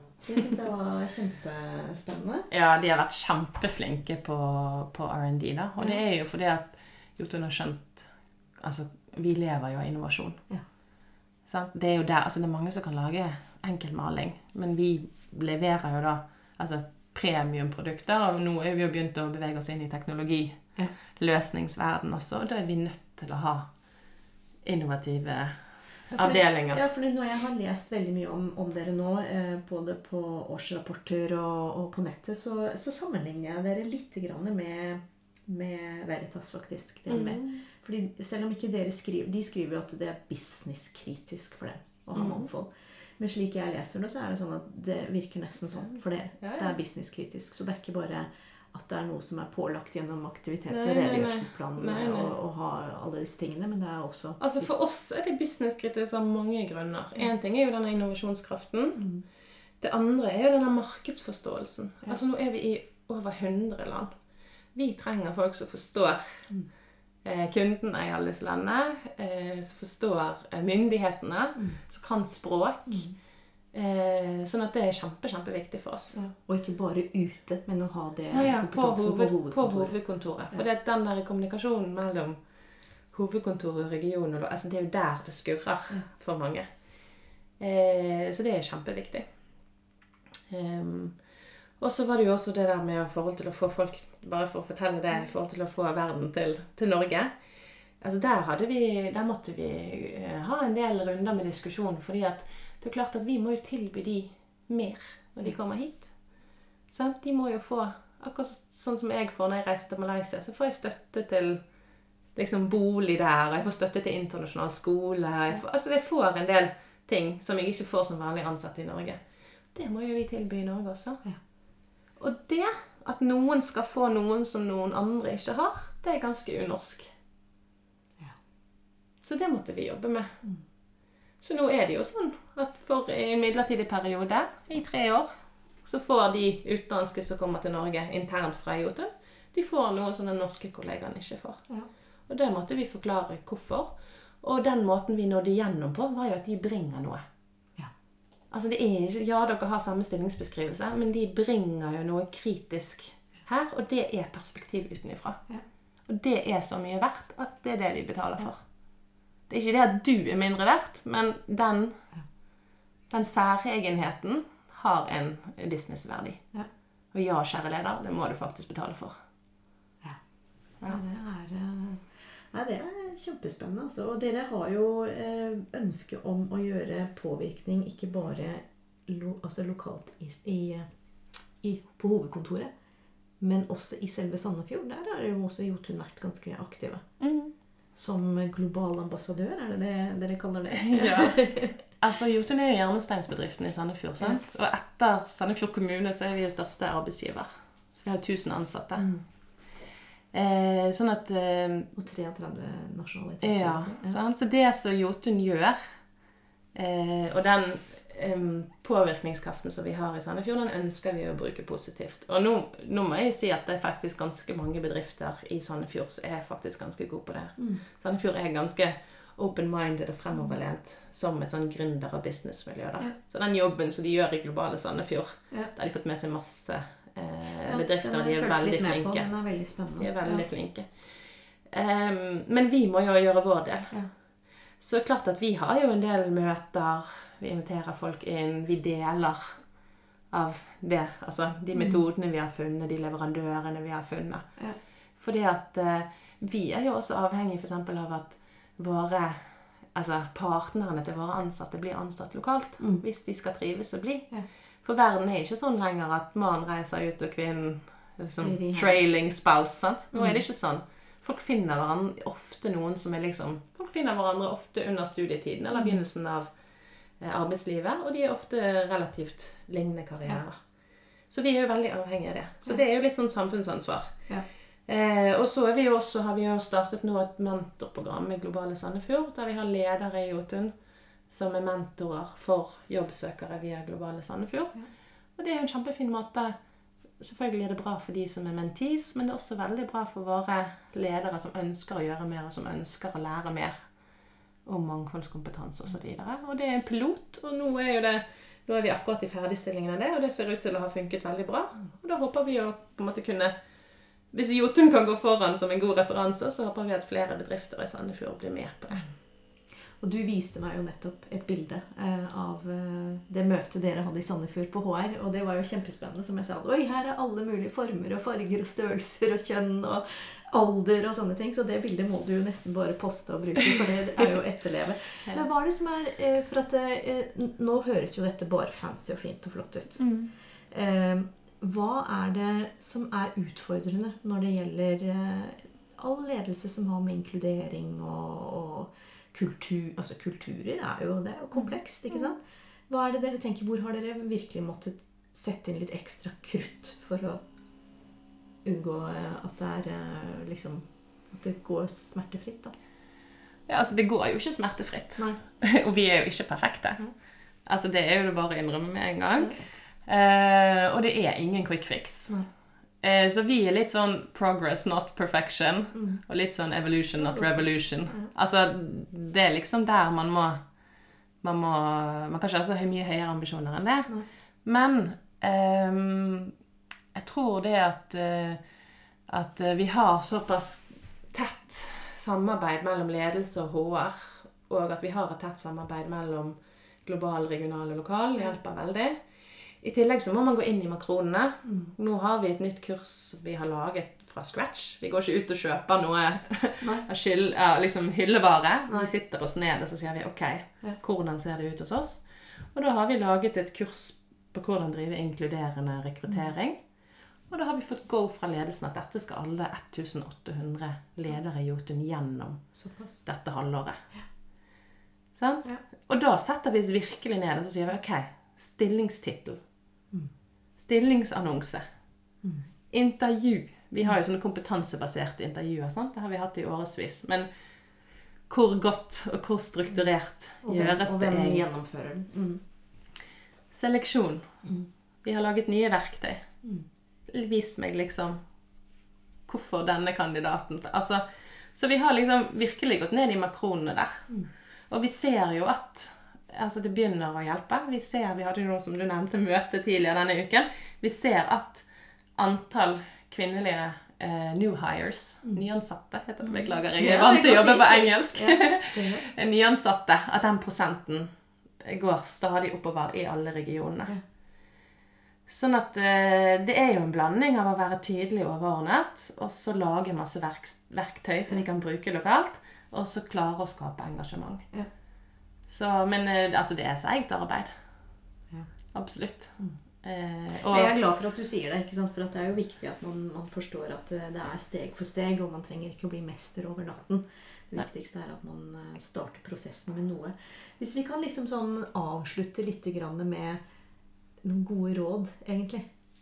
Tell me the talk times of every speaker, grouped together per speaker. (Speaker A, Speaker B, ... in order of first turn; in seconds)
Speaker A: 0.3-2.5, 26.1-54.7, 59.0-59.2, 72.9-73.2, 76.1-80.0, 170.9-180.9, 181.6-182.7, 183.4-187.1, 187.9-191.8, 199.0-199.2, 202.0-204.2, 217.6-217.8, 227.7-230.4, 241.7-242.0, 258.4-259.0, 260.1-260.4, 265.8-266.0, 310.0-330.1, 330.7-347.4, 348.6-352.8, 359.4-359.6, 367.2-368.3, 391.6-391.9, 412.8-413.2, 422.4-422.7, 430.6-432.6, 456.5-459.3, 480.7-493.6, 494.4-495.9
Speaker B: 2.5-8.1, 8.6-10.4, 11.5-20.6, 21.1-23.7, 24.6-25.6, 26.1-26.8, 37.1-37.6, 42.1-42.5, 46.4-46.8, 50.7-52.3, 54.4-59.0, 59.8-64.1, 64.8-66.5, 67.2-73.1, 73.7-76.2, 78.3-82.4, 83.1-86.7, 87.6-89.3, 90.5-91.2, 91.8-97.3, 98.0-106.1, 106.9-111.6, 112.3-119.2, 119.7-121.2, 122.2-127.1, 129.2-130.4, 131.4-135.3, 135.8-141.6, 142.3-147.2, 148.5-155.4, 156.1-158.6, 159.5-162.0, 163.1-166.4, 167.1-169.2, 187.2-187.5, 190.8-199.1, 200.3-201.9, 203.4-205.8, 206.8-229.3, 230.0-230.9, 231.7-234.0, 234.8-239.6, 240.3-244.5, 245.2-254.3, 254.8-266.5, 267.2-270.6, 271.3-274.2, 274.9-280.7, 281.3-284.8, 285.4-286.6, 287.2-293.8, 294.7-303.6, 304.3-309.1, 330.0-330.3, 341.5-342.3, 353.7-357.0, 357.7-362.4, 363.0-370.6, 371.4-374.1, 374.6-376.5, 377.1-378.6, 379.3-389.2, 389.8-406.8, 407.5-412.6, 413.3-414.0, 415.4-419.6, 420.8-421.8, 422.9-427.5, 428.5-431.6, 433.7-434.7, 435.2-436.5, 437.3-438.4, 439.5-444.3, 444.9-451.9, 452.4-464.1, 465.5-474.7, 475.7-477.7, 478.9-481.1